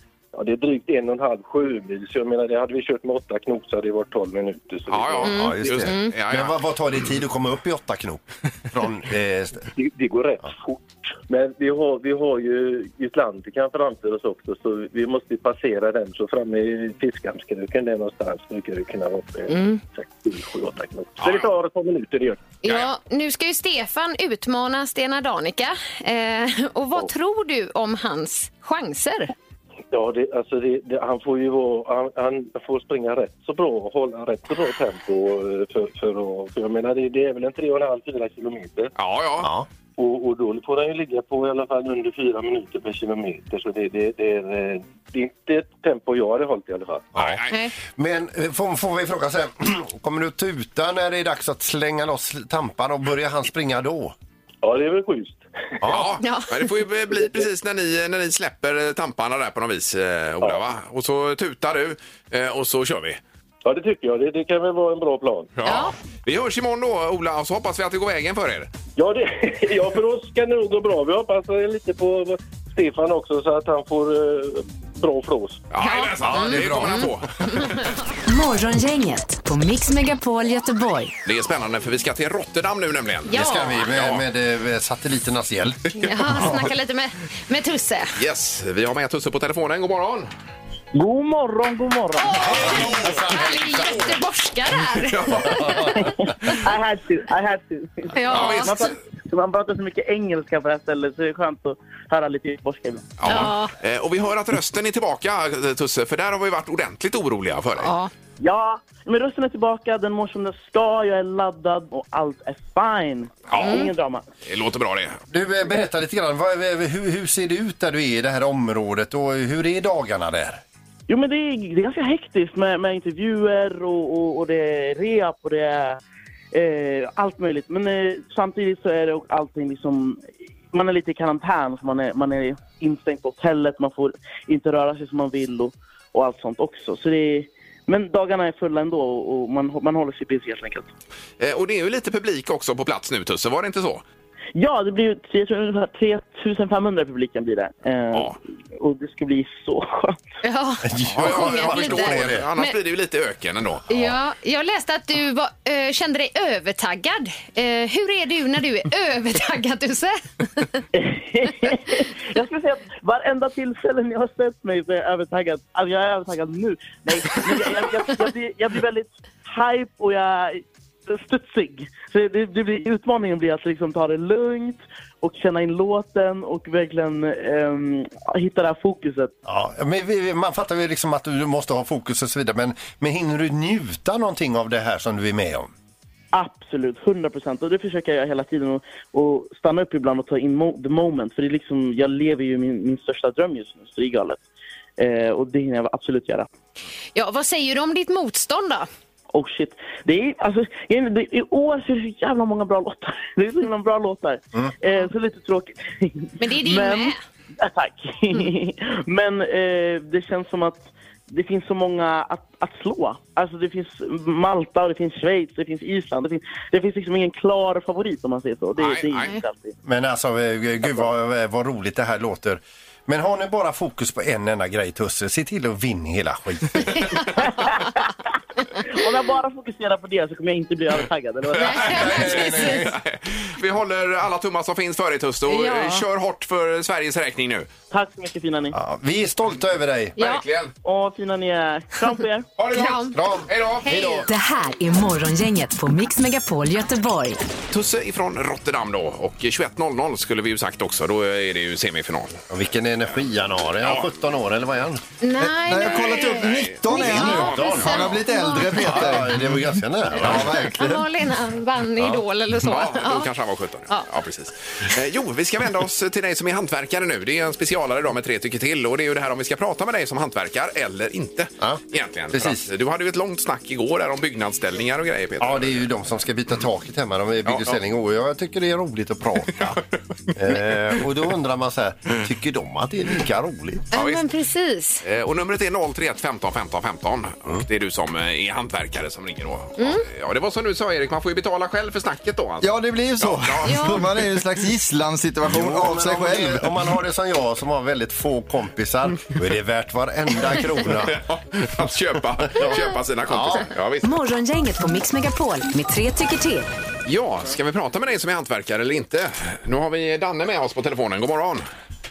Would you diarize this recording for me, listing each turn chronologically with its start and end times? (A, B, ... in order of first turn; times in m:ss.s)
0:00.3-0:05.5 A
0:04.9-0:06.6 B
0:05.2-0:09.7 C
0:05.2-0:06.1 D
0:09.7-0:22.4 A
0:19.5-0:19.8 D
0:21.2-0:21.5 B
0:22.6-0:29.3 D
0:22.6-0:22.9 B
0:29.9-0:38.9 A
0:39.0-0:39.5 B
0:39.4-0:39.7 C
0:40.0-0:47.1 A
0:47.2-0:54.2 C
0:47.2-0:47.5 B
0:54.6-0:55.4 A
0:55.8-0:56.2 C
0:55.8-1:03.2 B
0:56.2-0:56.7 D
1:03.6-1:05.5 A
1:05.6-1:08.7 B
1:05.6-1:05.9 D
1:09.0-1:15.6 A
1:15.7-1:17.8 B
1:15.8-1:17.9 D
1:16.2-1:17.1 C
1:18.3-1:21.1 E
1:21.2-1:24.2 B
1:23.3-1:23.8 D
1:23.3-1:26.5 C
1:26.0-1:28.2 D
1:28.2-1:30.3 B
1:30.9-1:33.2 F
1:32.2-1:36.0 D
1:32.4-1:34.0 B
1:35.1-1:35.9 B
1:35.9-1:43.1 F
1:38.1-1:38.8 D
1:38.3-1:38.9 B
1:43.2-1:47.9 B
1:43.3-1:43.7 D
1:47.8-1:48.1 D
1:48.4-1:54.2 F
1:53.5-1:53.9 B
1:53.6-1:53.9 D
1:54.5-1:55.2 B
1:55.3-2:00.6 C
2:01.1-2:06.0 F
2:06.5-2:20.9 F
2:21.4-2:24.0 B
2:24.6-2:30.2 F
2:30.4-2:32.7 D
2:30.8-2:32.5 C
2:31.1-2:34.1 B
2:33.9-2:40.8 D
2:40.9-2:59.3 F
2:59.5-3:05.7 C
3:06.3-3:14.4 F
3:15.0-3:16.5 F
3:17.2-3:18.9 D
3:19.3-3:39.8 F
3:26.4-3:27.2 D
3:38.8-3:39.3 B
3:39.8-3:47.3 C
3:47.7-3:48.1 F
3:48.8-3:52.2 F
3:51.6-3:57.7 B
3:51.6-3:52.7 D
3:51.7-3:53.0 C
3:55.5-3:56.0 D
3:57.9-3:58.8 F
3:58.8-4:00.2 C
4:00.2-4:00.4 D
4:00.2-4:00.7 B
4:00.8-4:02.5 F
4:02.6-4:04.2 B
4:02.7-4:03.2 D
4:03.1-4:04.3 C
4:03.8-4:04.2 D
4:04.3-4:07.4 E
4:07.7-4:12.4 B
4:12.5-4:15.0 C
4:13.8-4:14.1 B
4:15.2-4:19.2 D
4:15.4-4:19.6 G
4:15.8-4:18.1 B
4:17.1-4:20.6 C
4:20.1-4:21.0 G
4:20.3-4:23.3 D
4:22.6-4:35.8 B
4:31.6-4:32.6 C
4:35.4-4:39.8 C
4:37.4-4:37.8 B
4:40.4-4:43.9 C
4:43.9-4:44.2 B
4:43.9-4:45.0 D
4:45.0-4:54.2 B
4:49.8-4:50.0 D
4:52.6-4:56.8 G
4:53.6-4:54.0 D
4:55.5-5:01.2 C
5:00.8-5:04.1 B
5:02.5-5:03.7 C
5:04.0-5:06.7 E
5:07.0-5:11.6 B